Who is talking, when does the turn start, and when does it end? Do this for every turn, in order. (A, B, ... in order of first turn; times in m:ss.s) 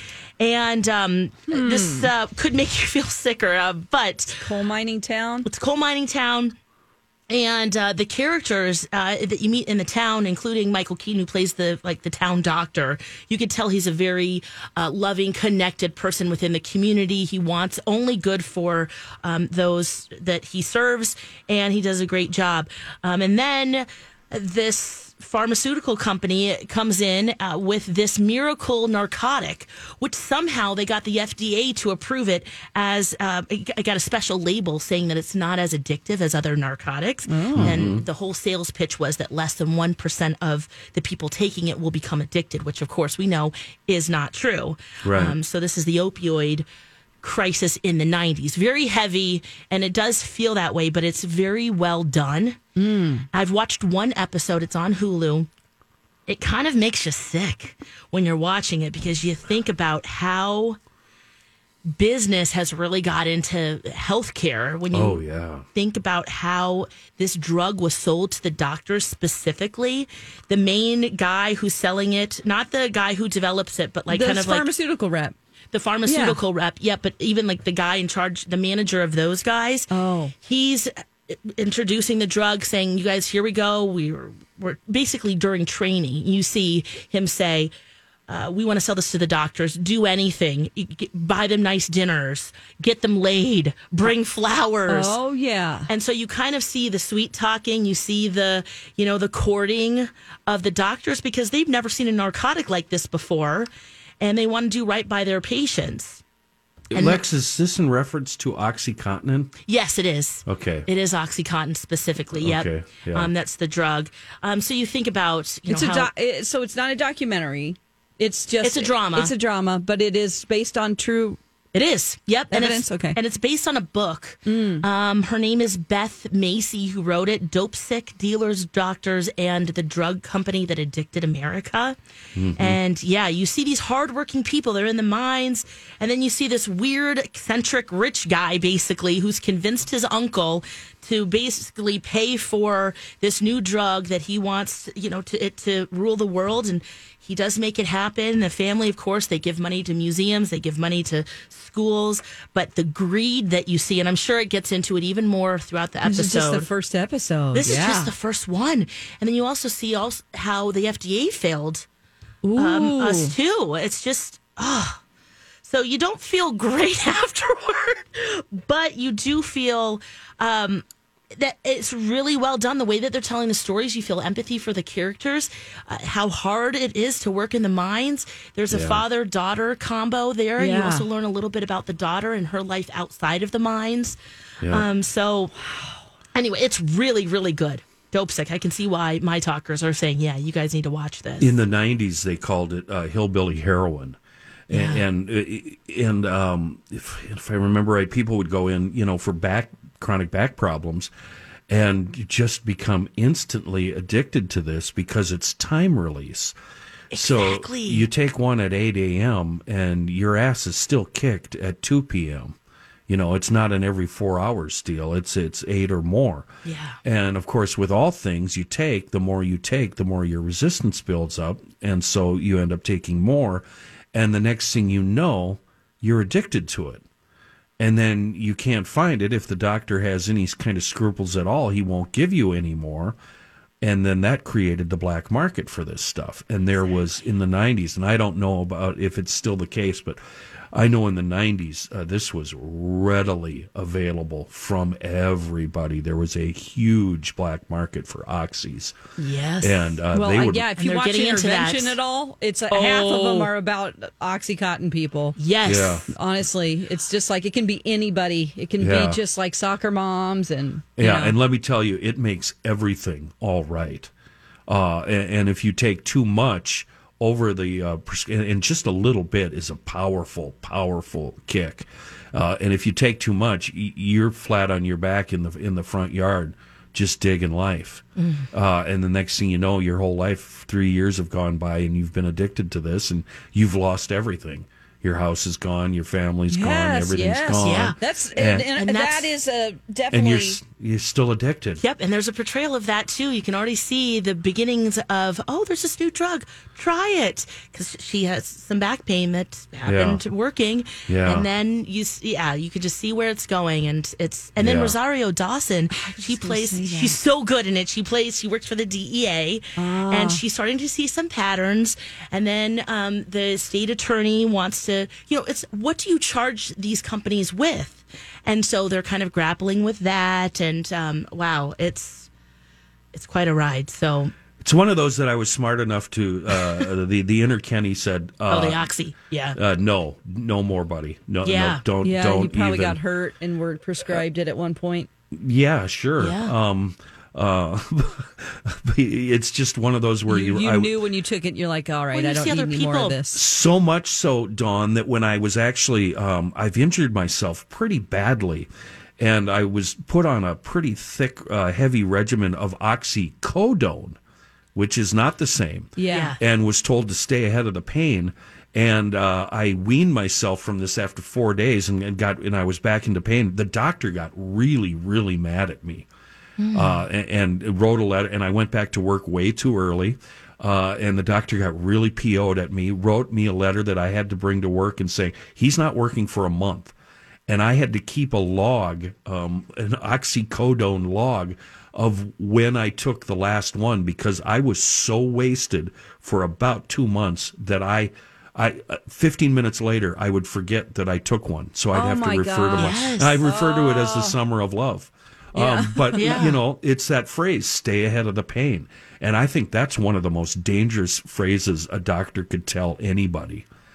0:00.4-0:04.4 A
0:01.5-0:02.1 B
0:04.3-0:05.5 B
0:05.4-0:06.6 A
0:07.3-0:46.7 A
0:37.3-0:37.8 B
0:37.6-0:38.0 C
0:45.0-0:45.4 C
0:47.2-0:52.6 A
0:52.8-0:53.3 B
0:53.3-0:55.5 A
0:56.3-1:00.8 A
1:01.9-1:05.2 A
1:04.9-1:05.6 C
1:05.8-1:14.7 A
1:14.1-1:15.4 B
1:15.7-1:19.9 A
1:16.1-1:16.4 B
1:19.9-1:20.3 B
1:20.4-1:27.7 A
1:28.3-1:35.2 A
1:34.9-1:35.9 B
1:35.9-1:46.2 A
1:46.9-1:49.5 C
1:46.9-1:47.2 A
1:49.7-1:56.1 A
1:50.5-1:50.9 C
1:52.4-1:53.3 C
1:55.7-2:01.4 B
1:58.6-1:59.3 A
2:01.7-2:12.0 A
2:02.5-2:03.2 B
2:04.5-2:04.8 B
2:12.4-2:12.8 C
2:12.6-2:36.7 A
2:36.0-2:38.1 B
2:37.5-2:41.9 A
2:42.4-2:43.3 B
2:42.6-2:45.0 A
2:45.6-3:04.2 A
2:58.7-2:59.0 C
3:00.6-3:01.1 B
3:04.6-3:04.9 C
3:04.7-3:05.5 A
3:05.7-3:06.0 B
3:06.4-3:11.6 A
3:11.4-3:14.2 C
3:14.7-3:21.1 C
3:14.7-3:15.0 A
3:21.7-3:26.6 C
3:27.1-3:28.1 A
3:27.1-3:32.6 C
3:33.1-3:36.5 C
3:36.6-3:37.0 A
3:37.0-3:47.0 C
3:47.8-3:53.2 C
3:53.8-4:00.2 C
4:00.7-4:08.9 C
4:09.2-4:10.0 A
4:09.6-4:10.7 C
4:10.1-4:15.4 B
4:10.8-4:12.0 A
4:12.7-4:13.5 A
4:15.4-4:16.0 A
4:15.6-4:16.1 C
4:16.1-4:21.4 B
4:18.8-4:19.2 C
4:21.0-4:24.1 C
4:24.7-4:48.7 C
4:38.2-4:38.5 A
4:46.5-4:50.6 B
4:47.6-4:48.0 A
4:48.8-4:49.3 A
4:50.1-4:51.8 C
4:51.8-5:22.3 A
4:59.8-5:00.2 C
5:01.1-5:01.5 C
5:04.6-5:05.0 C
5:05.9-5:07.2 B
5:09.8-5:10.4 B
5:23.1-5:24.3 A
5:24.6-5:28.9 C
5:26.5-5:26.9 A
5:28.5-5:29.6 A
5:29.6-5:33.0 C
5:31.4-5:31.8 A
5:32.0-5:35.1 B
5:35.3-5:41.0 C
5:36.2-5:36.5 A
5:40.3-5:43.4 B
5:42.1-5:43.2 A
5:43.3-5:54.2 C
5:54.8-6:06.1 C
5:56.0-5:56.4 B
5:56.1-5:56.4 A
6:06.6-6:07.0 A
6:06.7-6:16.9 C
6:17.5-6:43.7 C
6:31.9-6:34.4 B
6:32.8-6:33.4 A
6:35.6-6:36.5 B
6:36.2-6:36.6 A